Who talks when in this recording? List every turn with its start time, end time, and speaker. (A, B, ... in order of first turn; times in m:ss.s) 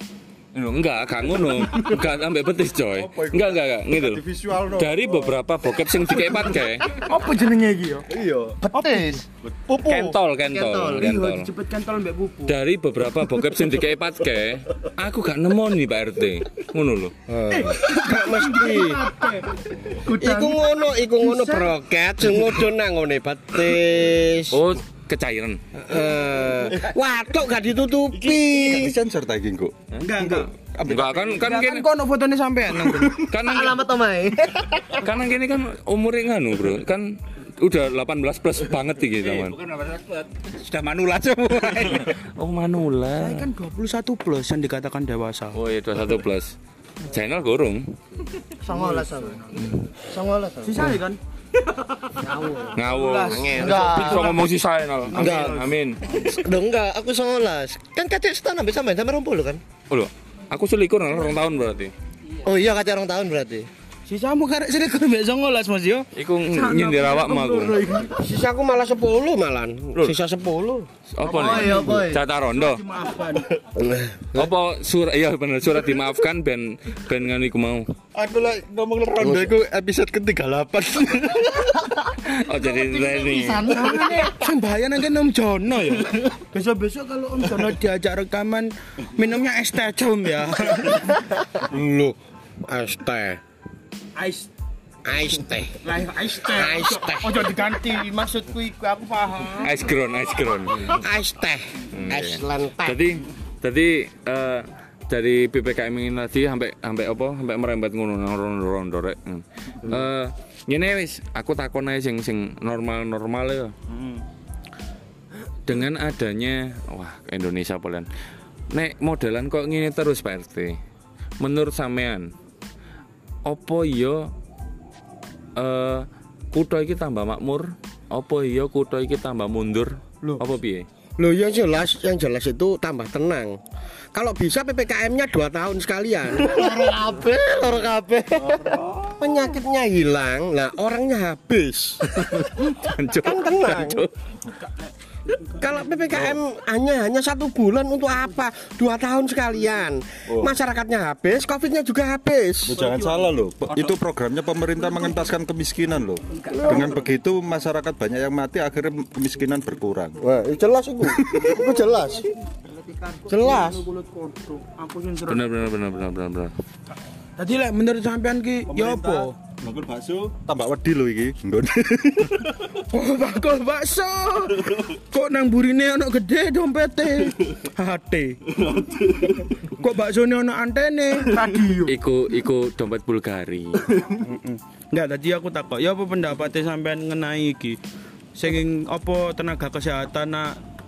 0:00.5-0:06.9 A
0:02.9-0:05.4 B
0:06.9-0:08.1 C
0:08.1-0:08.6 B
0:08.6-0:11.1 D
0:08.7-0:09.2 C
0:09.4-0:09.7 B
0:09.8-0:11.5 A
0:11.0-0:12.5 C
0:12.5-0:17.1 A
0:17.3-0:19.1 E
0:17.5-0:20.6 C
0:20.1-0:24.6 E
0:21.2-0:21.7 C
0:24.5-0:25.6 A
0:25.8-0:29.0 E
0:28.1-0:31.4 B
0:30.0-0:30.5 C
0:30.9-0:31.8 A
0:31.4-0:33.2 C
0:33.1-0:33.8 A
0:33.4-0:35.1 D
0:35.0-0:39.6 A
0:39.2-0:42.1 F
0:42.1-0:43.5 A
0:43.2-0:45.5 C
0:45.5-0:47.9 A
0:48.6-0:49.5 D
0:48.7-0:49.6 C
0:50.0-0:50.9 D
0:50.6-0:51.2 C
0:52.2-0:52.8 D
0:52.8-0:56.0 A
0:52.8-0:54.4 C
0:53.5-0:54.4 D
0:55.1-0:55.7 C
0:55.1-0:59.6 D
0:59.9-1:01.9 A
1:02.4-1:03.7 D
1:04.1-1:08.2 C
1:06.1-1:07.8 A
1:08.1-1:10.9 E
1:11.1-1:12.8 A
1:11.2-1:12.2 D
1:11.4-1:13.5 C
1:13.8-1:14.2 E
1:14.3-1:17.8 A
1:18.1-1:21.7 B
1:19.2-1:19.5 D
1:22.2-1:23.8 A
1:22.5-1:24.4 D
1:23.6-1:31.2 C
1:31.6-1:33.4 E
1:34.2-1:34.5 C
1:35.0-1:35.8 E
1:35.8-1:39.8 C
1:36.4-1:37.4 E
1:39.6-1:40.9 A
1:40.9-1:43.0 E
1:41.9-1:53.7 A
1:53.9-1:54.2 C
1:55.6-1:58.1 A
1:58.7-2:00.8 A
2:01.4-2:02.3 A
2:03.4-2:04.3 A
2:05.6-2:10.8 A
2:11.2-2:13.6 E
2:14.1-2:16.7 E
2:16.4-2:19.0 D
2:19.0-2:22.0 E
2:22.0-2:24.1 A
2:23.2-2:24.0 E
2:25.6-2:32.8 E
2:30.3-2:30.6 B
2:32.7-2:40.2 B
2:36.5-2:37.0 E
2:40.2-2:42.3 E
2:41.1-2:41.6 B
2:43.2-2:45.5 C
2:43.3-2:43.8 E
2:45.3-2:46.5 A
2:47.4-2:49.3 C
2:48.7-2:52.7 B
2:52.9-2:58.4 C
2:58.6-2:59.4 B
2:59.6-3:01.9 C
3:01.8-3:03.9 A
3:04.2-3:07.8 C
3:08.3-3:10.6 C